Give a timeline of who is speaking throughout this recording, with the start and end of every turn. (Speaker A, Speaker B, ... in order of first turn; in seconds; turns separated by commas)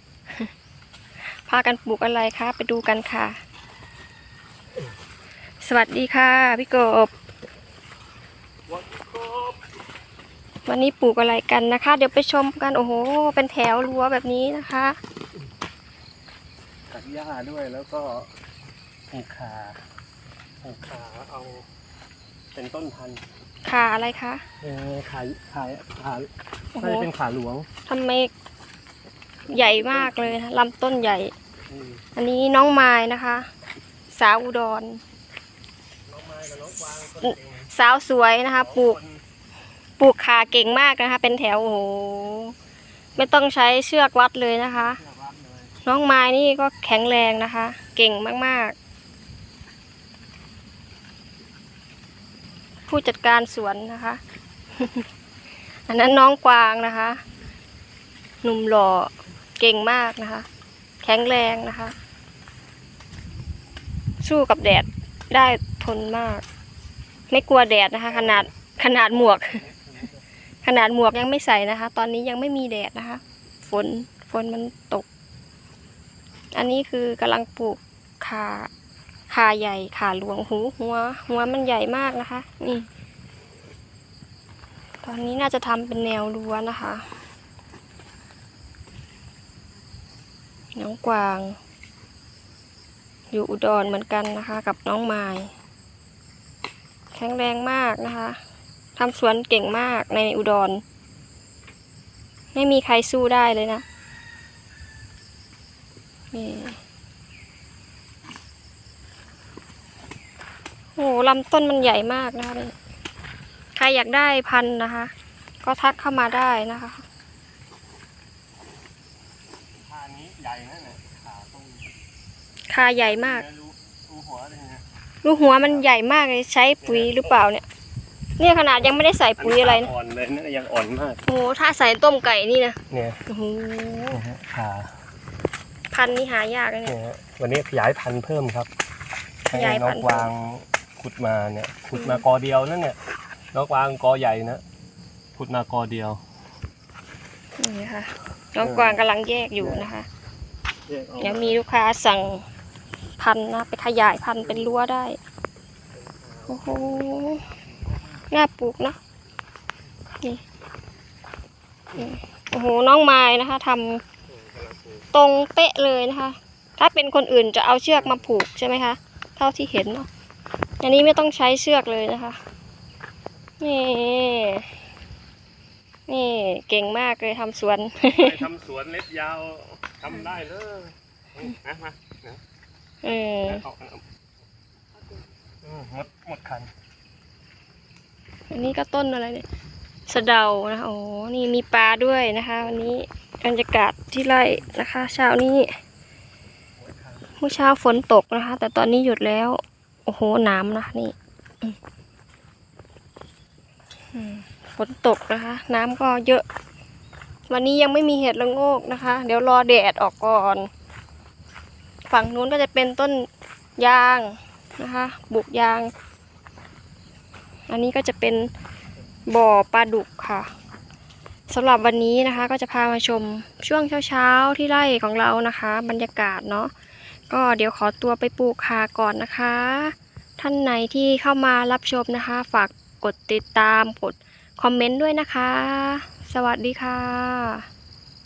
Speaker A: 1.2-3.4, Speaker A: 5.6-7.1, Speaker B: 8.7-9.6, Speaker A: 10.7-15.0, Speaker B: 16.9-18.3, Speaker B: 19.1-19.8, Speaker B: 20.6-21.7, Speaker B: 22.5-23.2, Speaker A: 23.6-24.4, Speaker B: 24.6-27.7, Speaker A: 26.8-27.1, Speaker A: 27.9-28.3, Speaker B: 29.5-30.4, Speaker A: 29.5-31.3, Speaker B: 31.7-32.0, Speaker A: 32.1-33.5, Speaker A: 34.1-35.0, Speaker B: 36.1-37.7, Speaker A: 37.2-39.0, Speaker B: 38.5-39.2, Speaker A: 40.0-42.5, Speaker A: 43.1-45.0, Speaker B: 44.7-45.7, Speaker A: 45.8-48.8, Speaker A: 52.9-54.2, Speaker A: 54.8-55.1, Speaker A: 55.9-57.2, Speaker A: 58.4-60.5, Speaker A: 61.0-61.9, Speaker A: 64.2-66.4, Speaker A: 67.3-69.6, Speaker B: 68.1-68.5, Speaker B: 69.1-70.2, Speaker A: 70.6-75.0, Speaker A: 76.5-78.7, Speaker A: 79.3-82.9, Speaker A: 85.0-87.1, Speaker A: 90.8-91.6, Speaker A: 93.3-95.5, Speaker A: 97.1-98.4, Speaker A: 99.0-100.8, Speaker A: 102.5-103.8, Speaker A: 106.3-106.8, Speaker A: 111.0-112.7, Speaker A: 113.7-115.1, Speaker A: 115.6-117.0, Speaker B: 119.8-121.9, Speaker A: 122.7-123.4, Speaker B: 123.0-124.8, Speaker A: 125.2-127.6, Speaker B: 125.6-125.8, Speaker B: 126.8-127.4, Speaker A: 128.4-129.9, Speaker B: 129.4-131.2, Speaker A: 131.2-134.2, Speaker B: 132.9-133.2, Speaker B: 134.1-134.9, Speaker A: 135.9-137.0, Speaker B: 136.8-138.7, Speaker B: 139.5-143.0, Speaker A: 139.5-140.3, Speaker A: 141.9-142.2, Speaker B: 143.5-144.6, Speaker B: 145.3-146.2, Speaker A: 147.6-150.1, Speaker B: 148.6-149.0, Speaker B: 149.6-149.9, Speaker B: 150.9-151.6, Speaker A: 151.2-152.4, Speaker A: 153.2-155.2, Speaker B: 154.4-154.8, Speaker B: 155.9-158.1, Speaker A: 156.5-157.4, Speaker A: 158.3-159.0, Speaker A: 161.9-164.0, Speaker B: 164.3-165.1, Speaker A: 165.1-170.1, Speaker B: 167.9-168.3, Speaker A: 170.8-172.4, Speaker A: 173.6-174.7, Speaker A: 176.1-178.4, Speaker B: 178.1-182.4, Speaker A: 183.0-183.6, Speaker B: 183.5-184.0, Speaker B: 185.6-186.7, Speaker A: 188.5-189.4, Speaker A: 190.1-195.8, Speaker B: 196.8-197.4, Speaker A: 197.4-201.8, Speaker A: 204.1-206.4, Speaker A: 207.5-210.7, Speaker A: 212.1-215.9, Speaker A: 217.7-218.5, Speaker A: 219.3-220.5, Speaker A: 221.5-226.7, Speaker A: 227.3-237.7